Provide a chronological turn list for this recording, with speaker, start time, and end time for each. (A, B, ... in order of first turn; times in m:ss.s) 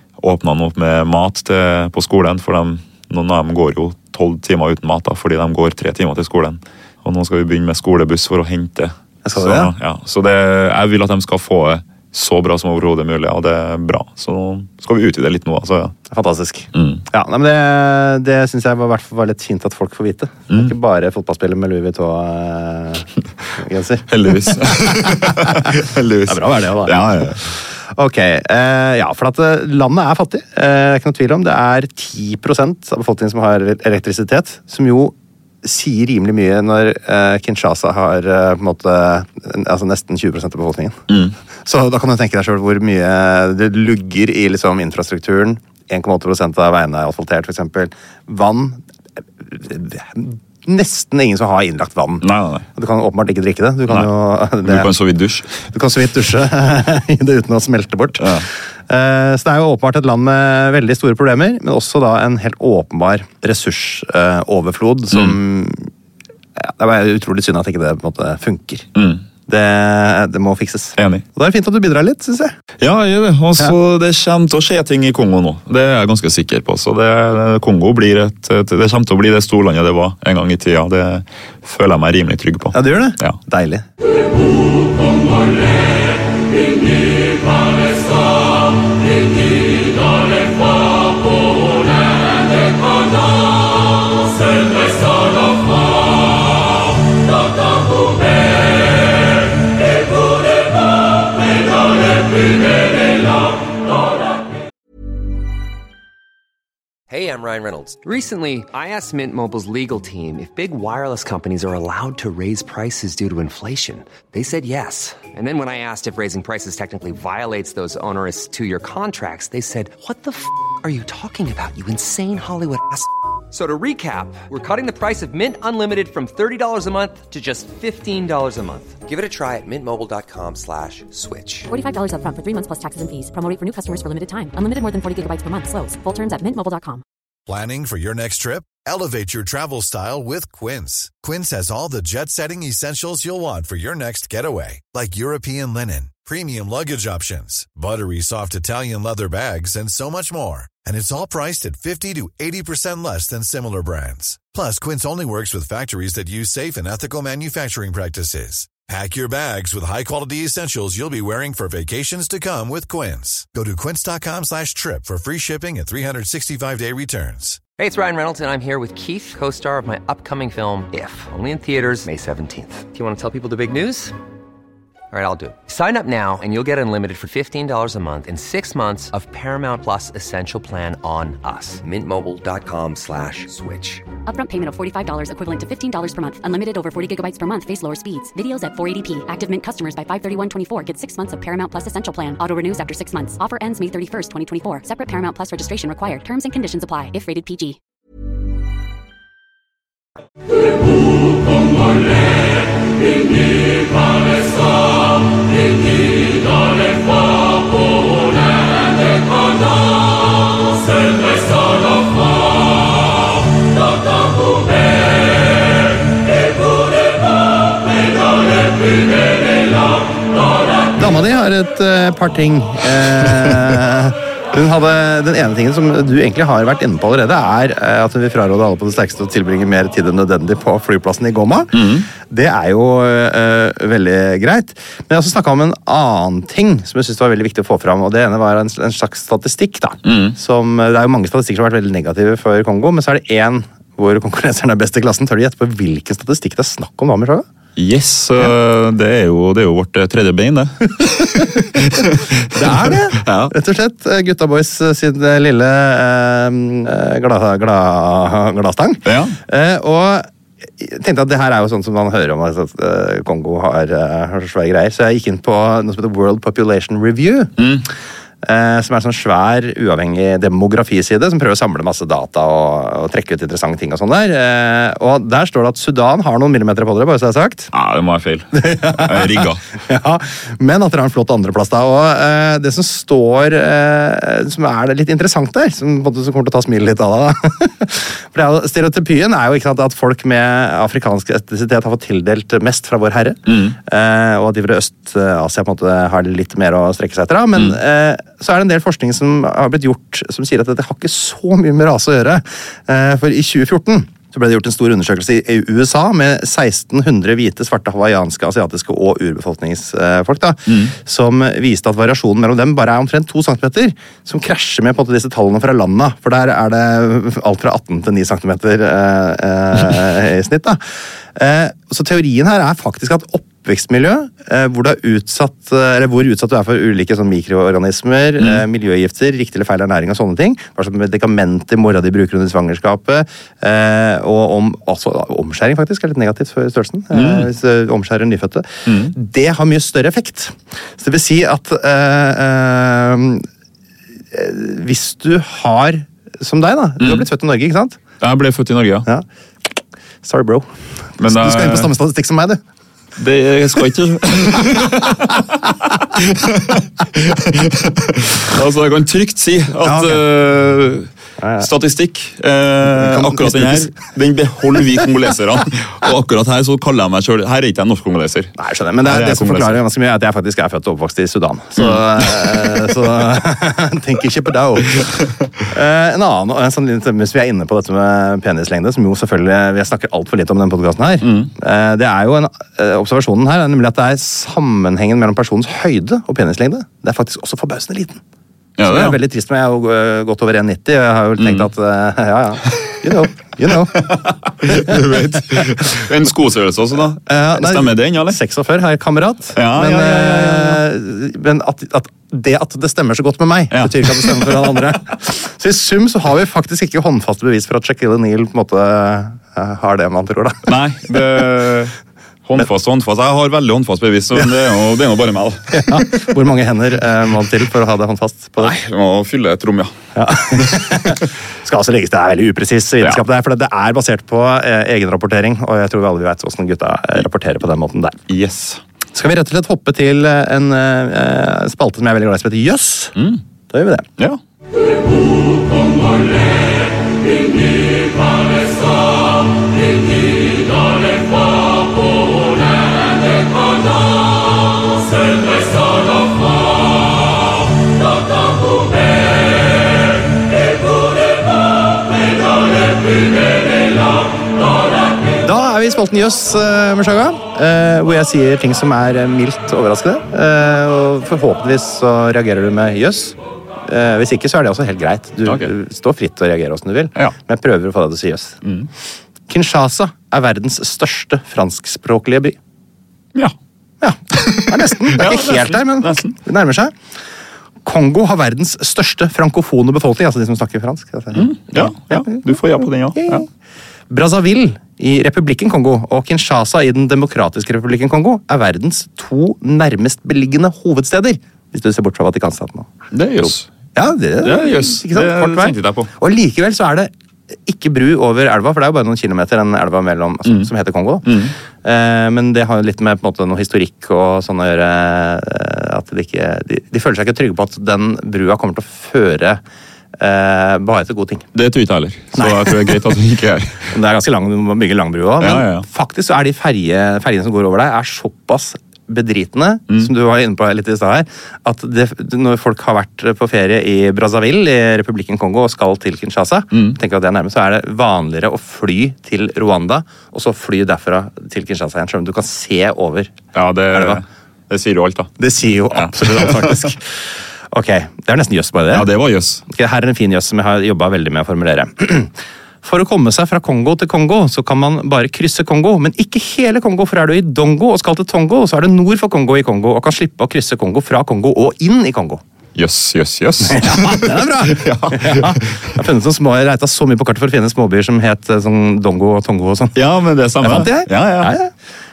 0:00.2-0:16.0 A
0:09.2-0:09.7 B
0:16.1-0:25.7 B
0:16.7-0:17.1 A
0:24.1-0:27.5 A
0:26.3-0:41.0 B
0:41.1-0:41.4 A
0:41.6-0:48.8 B
0:49.4-0:54.9 B
0:52.2-0:52.7 A
0:53.9-0:55.7 A
0:55.7-1:05.9 B
0:58.2-0:58.5 A
1:05.1-1:05.4 A
1:06.6-1:08.9 B
1:09.0-1:09.2 A
1:09.5-1:12.6 B
1:11.0-1:11.2 A
1:12.8-1:23.4 A
1:22.7-1:23.8 B
1:47.1-2:11.7 C
2:11.7-2:17.0 D
2:17.5-2:47.6 E
2:47.8-2:54.1 C
2:55.1-3:04.0 C
3:04.3-3:17.8 D
3:41.0-4:07.5 B
3:51.7-3:52.1 A
4:00.0-4:00.4 A
4:07.8-4:13.5 A
4:11.4-4:11.9 B
4:12.5-4:20.3 B
4:19.0-4:19.4 A
4:20.8-4:27.5 B
4:27.6-4:27.9 A
4:28.4-4:37.7 B
4:37.7-4:39.7 A
4:38.6-5:43.5 B
4:53.5-4:53.8 A
5:10.7-5:10.9 A
5:37.1-5:37.5 A
5:38.9-5:39.2 A
5:44.3-5:48.0 B
5:47.0-5:47.3 A
5:48.2-5:49.1 A
5:50.2-5:50.7 B
5:51.2-5:51.9 A
5:51.2-5:52.6 B
5:53.2-6:09.8 A
5:59.8-6:00.2 B
6:01.4-6:01.7 B
6:03.0-6:03.9 B
6:08.6-6:15.1 B
6:11.8-6:12.0 A
6:15.6-6:28.2 B
6:21.2-6:21.5 A
6:28.8-6:29.2 A
6:28.8-6:35.1 B
6:31.4-6:31.7 A
6:34.0-6:38.4 A
6:37.3-6:50.7 B
6:39.6-6:40.8 A
6:43.7-6:44.6 A
6:50.7-6:51.9 A
6:52.4-6:56.3 A
6:55.7-6:58.8 B
6:58.6-6:59.9 A
7:00.2-7:08.2 B
7:00.6-7:01.1 A
7:08.3-7:08.8 A
7:09.1-7:13.2 B
7:13.2-7:13.4 A
7:13.7-7:14.1 B
7:35.4-7:48.6 B
7:45.4-7:45.7 A
7:48.6-7:48.9 A
7:49.5-7:52.6 B
7:54.0-7:56.9 B
7:54.3-7:56.4 A
7:57.8-8:02.6 B
8:01.3-8:03.5 A
8:03.2-8:03.5 B
8:04.1-8:17.1 B
8:13.1-8:13.7 A
8:14.4-8:16.1 A
8:17.7-8:21.3 B
8:21.2-8:21.6 A
8:21.8-8:29.6 B
8:30.2-8:31.5 B
8:31.6-8:33.9 A
8:32.4-8:33.0 B
8:33.9-8:53.3 B
8:35.4-8:35.9 A
8:46.7-8:47.0 A
8:53.5-8:55.3 A
8:53.9-8:54.2 B
8:55.4-8:57.1 B
8:55.9-8:56.9 A
8:57.7-8:59.1 B
8:58.9-8:59.6 A
8:59.7-9:12.4 B
9:12.8-9:15.9 A
9:13.6-9:20.0 B
9:20.0-9:21.6 A
9:20.6-9:21.7 B